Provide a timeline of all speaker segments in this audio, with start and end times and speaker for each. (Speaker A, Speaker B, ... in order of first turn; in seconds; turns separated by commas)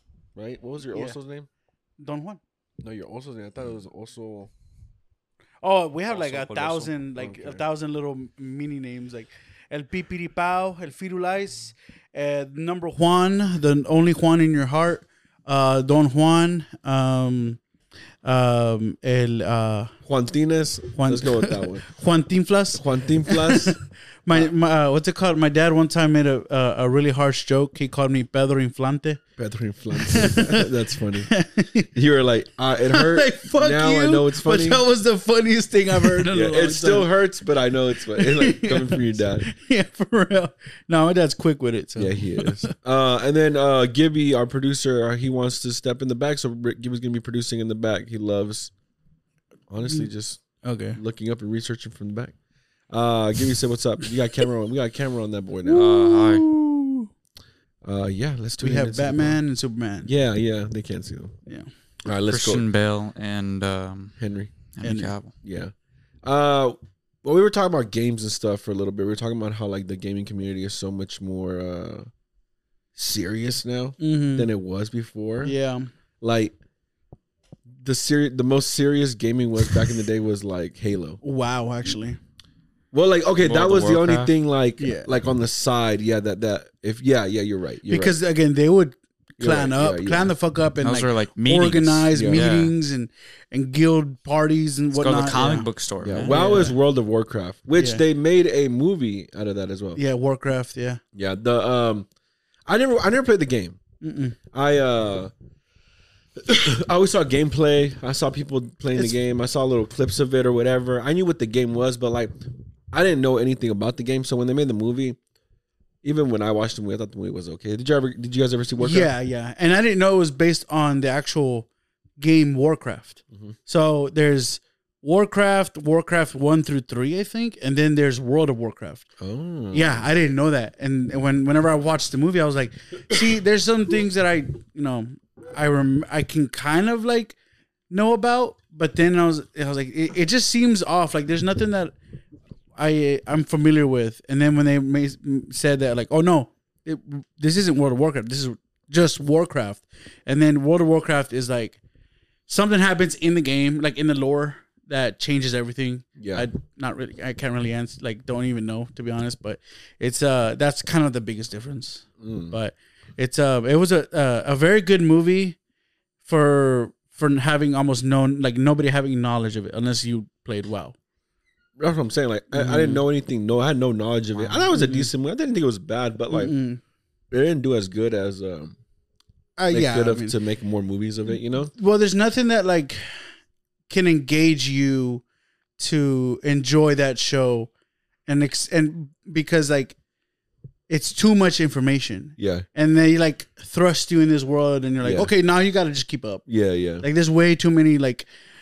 Speaker A: 0.4-1.5, Speaker B: 0.9-1.2, Speaker B: 2.0-2.4, Speaker A: 2.8-4.5, Speaker B: 5.6-17.6, Speaker C: 6.1-7.0, Speaker A: 7.2-7.6, Speaker B: 18.2-19.9, Speaker A: 20.1-21.9, Speaker B: 20.9-29.2, Speaker A: 22.7-23.8, Speaker A: 29.4-31.3, Speaker B: 29.9-31.9, Speaker A: 31.9-34.8, Speaker B: 32.9-37.1, Speaker A: 35.9-39.5, Speaker B: 38.1-42.7, Speaker A: 42.0-48.7, Speaker A: 49.7-50.4, Speaker B: 50.6-51.0, Speaker A: 51.0-52.4, Speaker A: 52.9-55.9, Speaker B: 55.7-57.1, Speaker C: 55.7-56.5, Speaker A: 57.8-59.4, Speaker B: 58.6-60.1, Speaker A: 60.0-61.3, Speaker A: 62.0-62.6, Speaker C: 62.3-64.2, Speaker A: 64.2-64.5, Speaker C: 64.7-65.3, Speaker B: 64.8-65.1, Speaker A: 65.4-65.7, Speaker A: 66.2-72.1, Speaker A: 73.0-75.5, Speaker B: 74.0-74.5, Speaker B: 75.4-75.9, Speaker A: 76.2-76.5, Speaker A: 77.8-81.2, Speaker B: 81.2-82.2, Speaker A: 82.9-88.2, Speaker C: 83.4-84.3, Speaker B: 84.8-85.1, Speaker B: 87.9-95.7, Speaker A: 89.4-90.3, Speaker C: 90.8-92.7, Speaker A: 92.1-92.5, Speaker C: 94.9-96.3, Speaker A: 96.0-100.0, Speaker B: 96.3-96.8, Speaker B: 100.0-101.0, Speaker A: 101.2-102.1, Speaker A: 102.7-103.8, Speaker B: 104.0-104.4, Speaker A: 104.5-105.3, Speaker A: 106.4-112.3, Speaker A: 112.9-115.2, Speaker A: 116.0-119.1, Speaker B: 118.8-121.7, Speaker B: 122.2-129.1, Speaker A: 129.2-130.0, Speaker B: 129.7-137.4, Speaker B: 137.9-141.9, Speaker B: 142.8-151.8, Speaker B: 152.5-165.6, Speaker A: 156.2-156.5, Speaker A: 162.2-162.6, Speaker B: 166.2-170.9, Speaker A: 171.8-176.5, Speaker B: 172.5-173.0, Speaker C: 174.4-174.7, Speaker B: 174.7-175.1, Speaker B: 176.3-176.8, Speaker A: 177.3-178.8, Speaker B: 179.6-180.4, Speaker A: 179.7-181.7, Speaker B: 181.7-183.1, Speaker B: 183.9-185.2, Speaker B: 185.8-187.7, Speaker B: 188.3-190.0, Speaker B: 190.9-196.4, Speaker A: 192.4-192.7, Speaker A: 195.0-195.3, Speaker A: 196.5-197.1, Speaker B: 197.0-198.3